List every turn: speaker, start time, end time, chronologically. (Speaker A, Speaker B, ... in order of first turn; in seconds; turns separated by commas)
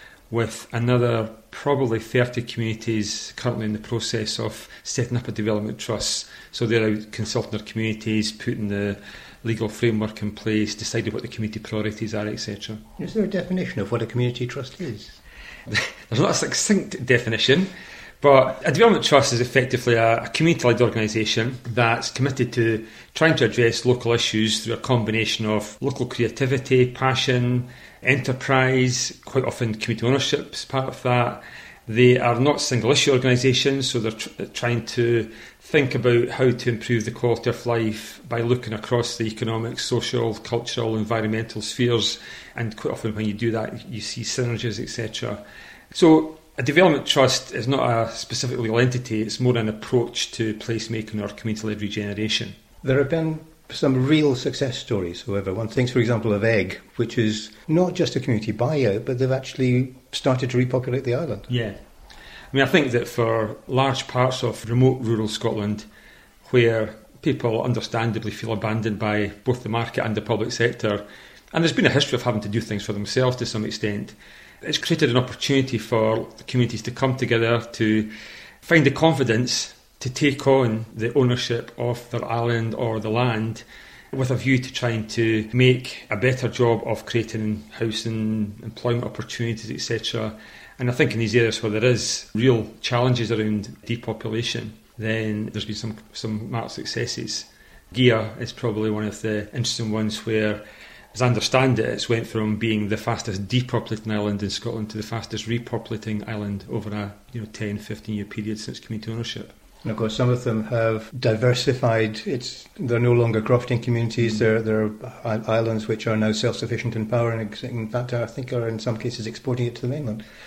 Speaker A: 0.3-12.8, Speaker B: 13.0-15.2, Speaker A: 15.7-17.7, Speaker A: 18.2-45.4, Speaker A: 45.9-52.5, Speaker B: 52.8-61.5, Speaker A: 61.5-61.8, Speaker A: 62.5-65.9, Speaker A: 66.5-78.1, Speaker A: 78.6-100.6, Speaker A: 101.1-109.5, Speaker B: 109.8-120.2